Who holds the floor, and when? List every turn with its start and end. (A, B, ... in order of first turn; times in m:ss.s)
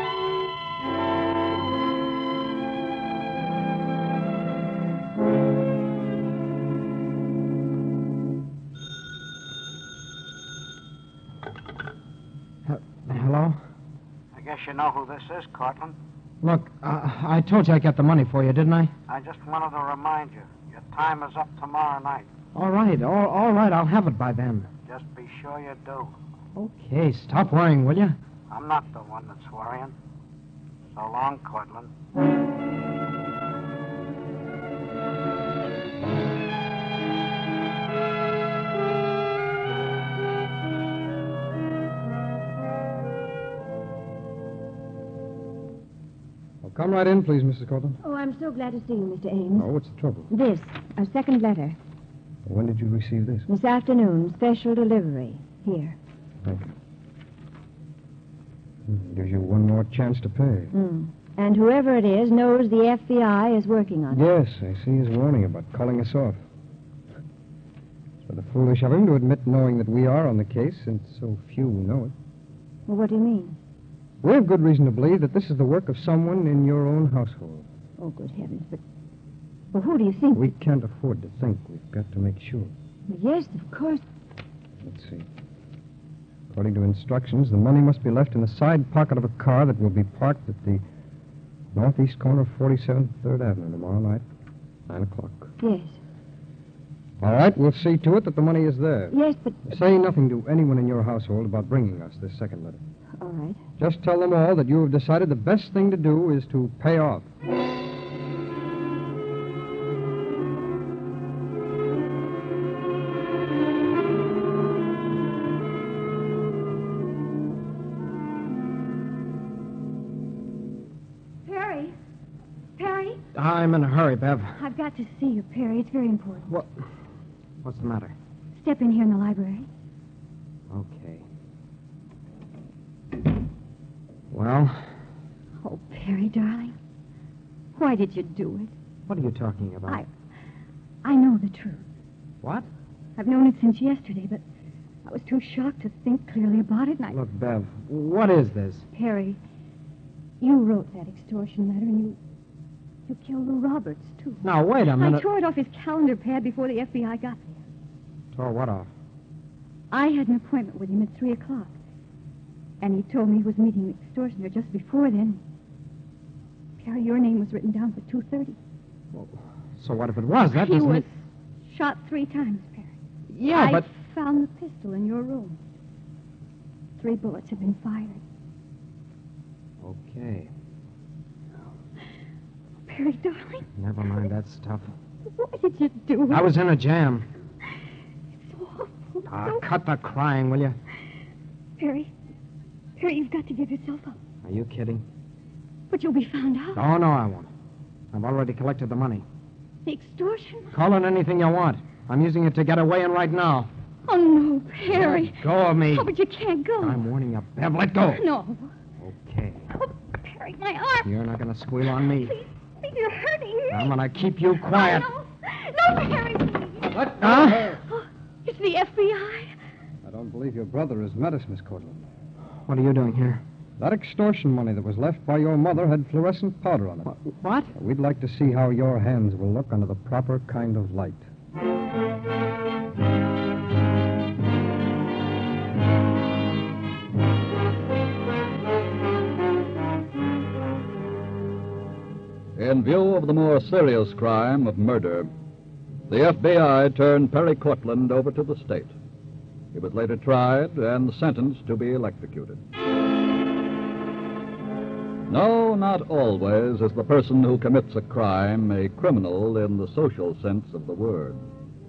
0:12.7-0:13.6 A
0:14.4-0:16.0 B
0:16.4-0:18.9 A
0:19.1-0:22.3 B
0:22.5-0:24.7 A
0:24.9-0:26.1 B
0:26.6-0:28.2 A
0:28.5-0:29.9 B
0:30.9-0:31.9 B
0:46.6-0:48.0 C
0:48.0-0:49.7 D
0:49.6-0:50.3 C
0:50.3-0:51.8 D
0:52.5-0:53.5 C
0:53.5-0:56.0 D
0:56.4-0:56.7 C
0:58.9-1:00.7 C
1:00.7-1:04.2 D
1:04.1-1:06.4 C
1:08.2-1:12.1 C
1:12.9-1:13.6 D
1:14.2-1:17.7 C
1:18.0-1:18.8 D
1:19.7-1:20.5 D
1:20.3-1:22.7 C
1:23.1-1:24.0 D
1:24.8-1:25.3 C
1:26.5-1:30.8 C
1:31.7-1:34.2 C
1:34.9-1:35.5 C
1:35.6-1:36.0 D
1:37.2-1:42.8 C
1:39.1-1:39.7 D
1:43.2-1:43.6 D
1:43.8-1:47.3 C
2:01.4-2:02.0 E
2:02.8-2:03.2 E
2:03.4-2:04.5 A
2:04.6-2:06.5 E
2:07.6-2:08.2 A
2:08.5-2:09.7 E
2:10.7-2:11.3 A
2:14.3-2:14.9 A
2:15.6-2:16.8 E
2:17.8-2:18.7 E
2:19.1-2:20.0 A
2:21.0-2:21.8 E
2:23.2-2:24.4 E
2:25.1-2:27.2 E
2:27.1-2:28.8 A
2:28.9-2:29.4 E
2:30.4-2:32.2 E
2:33.1-2:37.6 E
2:34.4-2:35.2 A
2:38.3-2:38.9 A
2:39.9-2:41.7 E
2:42.8-2:45.4 E
2:46.8-2:48.6 E
2:49.1-2:51.1 A
2:50.5-2:52.9 E
2:53.3-2:53.9 A
2:53.5-2:55.6 E
2:57.0-2:58.2 E
2:59.8-3:00.5 A
3:02.9-3:03.7 E
3:03.8-3:04.9 A
3:05.3-3:06.5 E
3:06.3-3:07.3 A
3:08.4-3:09.6 E
3:09.3-3:10.8 A
3:11.8-3:12.1 E
3:13.0-3:14.2 E
3:14.4-3:15.0 A
3:15.9-3:16.8 E
3:16.8-3:17.5 A
3:18.1-3:19.2 A
3:19.8-3:20.8 E
3:20.7-3:23.7 A
3:24.1-3:27.0 E
3:24.9-3:26.1 A
3:26.8-3:28.2 A
3:28.1-3:28.7 E
3:29.0-3:29.7 A
3:29.7-3:31.2 E
3:31.0-3:32.3 A
3:31.8-3:34.0 E
3:33.7-3:35.1 A
3:34.6-3:39.5 E
3:36.9-3:37.8 A
3:40.0-3:42.1 C
3:42.6-3:43.4 A
3:43.8-3:47.2 C
3:47.0-3:47.7 A
3:47.7-3:51.3 C
4:02.6-4:05.3 F
4:06.1-4:08.9 F
4:09.7-4:12.6 F
4:15.3-4:21.4 F